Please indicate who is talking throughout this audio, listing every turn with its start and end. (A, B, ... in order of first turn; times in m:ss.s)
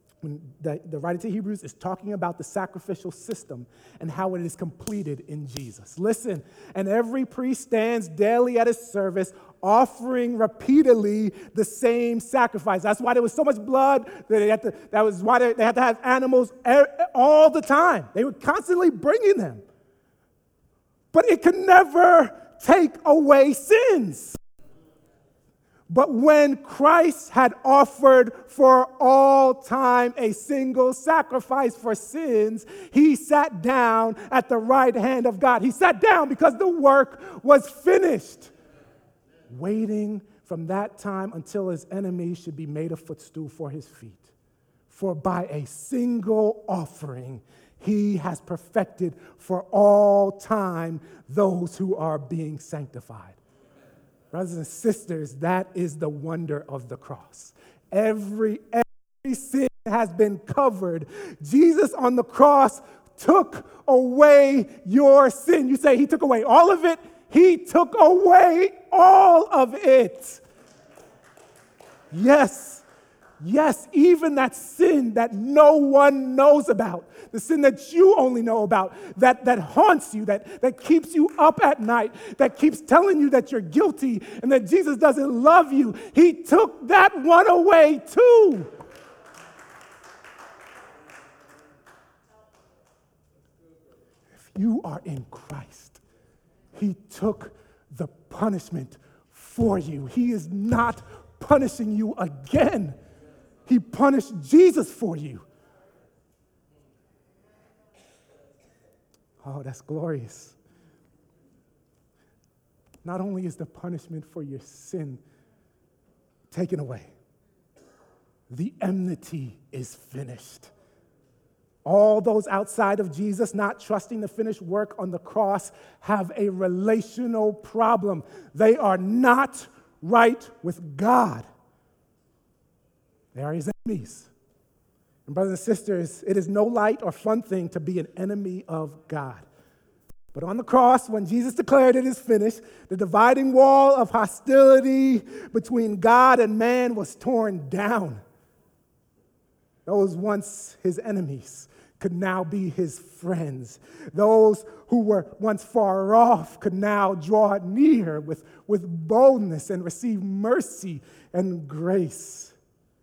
0:00.2-0:19.6 A
0:21.1-0:24.4 A
0:25.9-0:38.5 A
0:39.5-0:44.3 A
0:44.9-0:53.4 A
0:54.3-1:10.4 A
1:12.1-1:12.8 A
1:13.4-1:28.7 A
1:34.3-1:36.0 A
1:36.7-1:43.0 A
1:43.6-1:45.4 A
1:49.4-1:50.6 A
1:53.0-1:55.2 A
1:56.5-1:57.1 A
1:58.5-2:00.7 A
2:01.8-2:11.4 A
2:13.3-2:14.3 A
2:15.2-2:19.4 A
2:20.3-2:28.2 A
2:29.8-2:42.6 A